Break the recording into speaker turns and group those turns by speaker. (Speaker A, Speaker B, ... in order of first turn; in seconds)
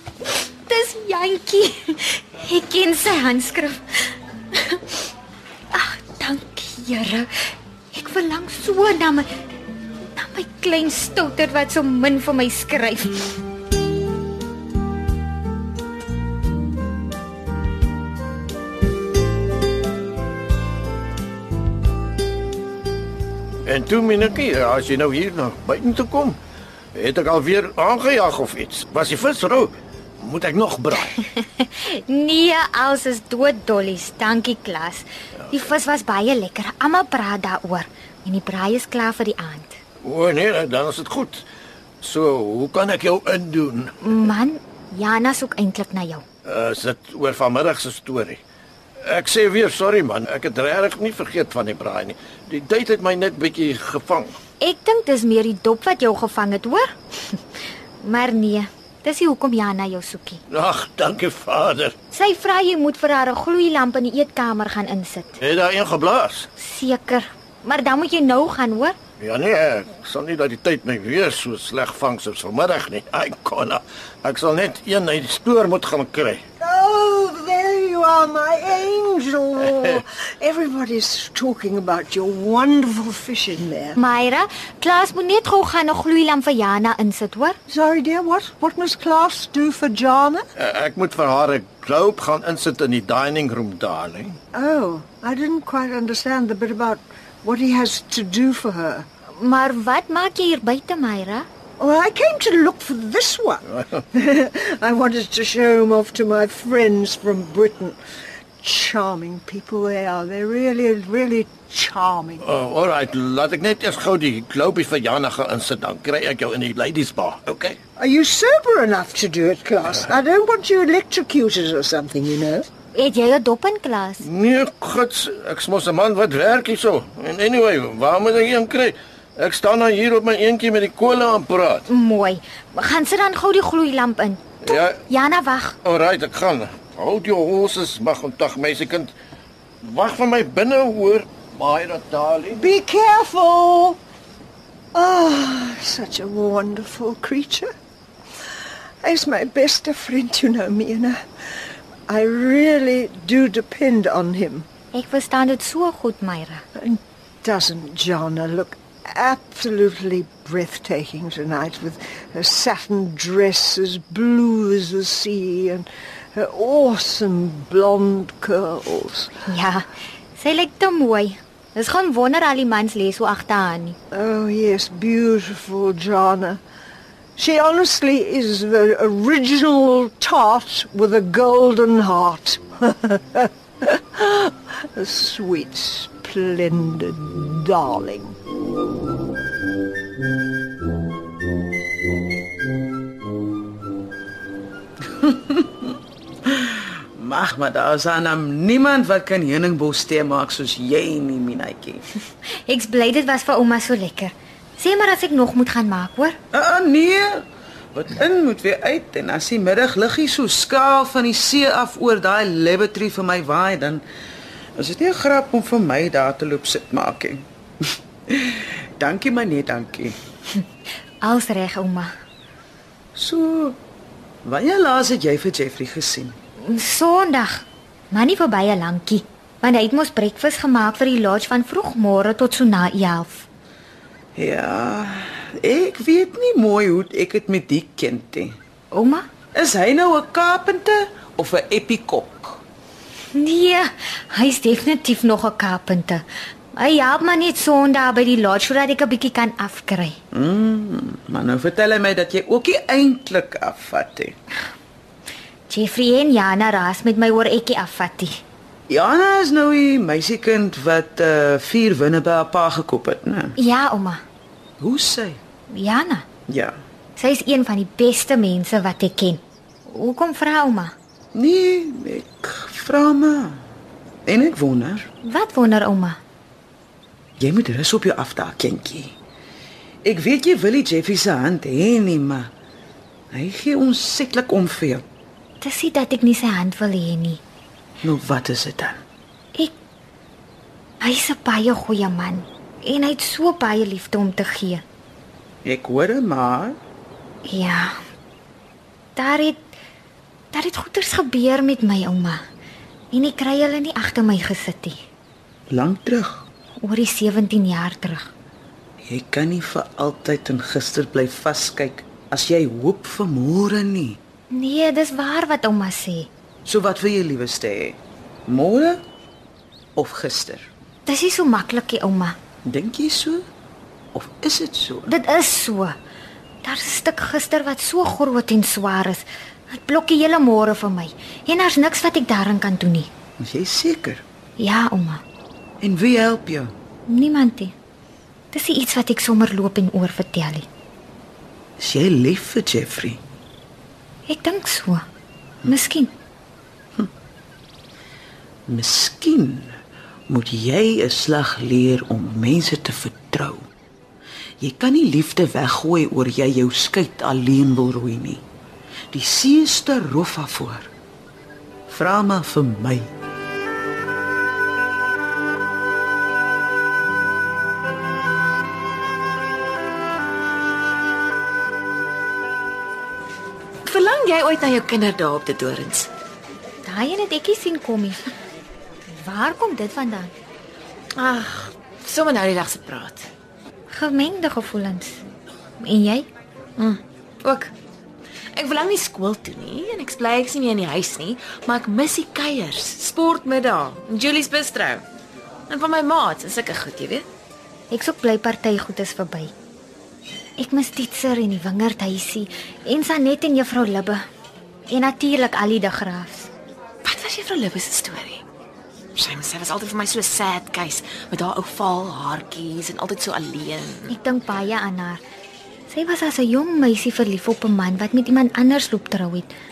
Speaker A: 0.7-4.8, 5.7-7.4, 7.9-9.3, 10.2-13.4, 31.2-39.8, 44.0-46.2, 54.6-57.4, 58.0-60.4, 62.1-65.4, 66.6-69.0, 84.0-87.6, 99.4-101.5, 122.9-124.3, 131.9-135.8, 154.9-156.6, 169.5-169.9, 170.4-174.0, 202.7-206.4, 221.2-222.1, 226.6-233.5, 238.9-239.2, 243.3-250.2, 255.7-258.4, 263.6-264.2, 265.7-266.2, 267.2-270.9, 275.2-276.2, 285.6-287.4, 291.0-294.8, 297.5-298.0, 299.2-299.7, 300.5-302.4, 303.1-305.0, 306.8-308.3, 314.5-316.3, 321.1-322.4, 325.1-326.0, 326.6-333.1, 334.6-335.2, 337.1-337.7, 338.5-340.7, 344.3-345.0, 345.7-346.1, 376.9-378.4, 379.1-380.3, 383.9-385.2, 385.8-386.3, 397.9-399.5, 400.6-404.2, 404.9-406.5, 414.1-415.2, 415.9-419.5
Speaker B: 23.7-26.4, 26.9-31.1, 40.0-41.4, 42.0-43.9, 46.5-48.4, 49.1-54.4, 60.5-61.9, 65.4-66.5, 69.2-76.4, 90.6-94.4, 112.4-117.8, 124.2-131.8, 134.7-135.0, 135.8-139.1, 139.8-142.6
Speaker C: 76.6-84.0, 87.7-90.4, 94.5-99.1, 101.8-108.0, 108.6-112.5, 118.0-122.7, 142.5-144.0, 144.9-147.7, 149.0-151.2, 152.1-154.7, 156.8-169.3, 174.1-176.6, 177.4-188.4
Speaker D: 195.2-195.9, 196.5-202.0, 206.5-214.0, 214.8-217.4, 218.3-220.2, 223.2-223.8, 224.4-226.4, 234.4-238.6, 239.5-242.6, 250.3-254.3, 258.9-263.6, 264.8-265.4, 266.5-266.8, 271.3-273.6, 274.3-275.1, 277.4-279.1, 280.0-282.5, 283.3-285.0, 288.0-289.0, 295.6-296.8, 305.7-306.5, 309.0-314.2, 316.7-319.0, 320.0-320.7, 322.6-323.4, 324.1-325.1, 333.4-334.2, 335.8-336.7, 341.8-343.2, 348.7-349.8, 350.3-353.7, 354.6-358.4, 359.1-360.9, 361.9-363.1
Speaker E: 373.9-376.1, 381.2-383.3, 386.8-387.7, 388.6-395.0, 395.7-397.3, 407.0-408.4, 409.2-414.1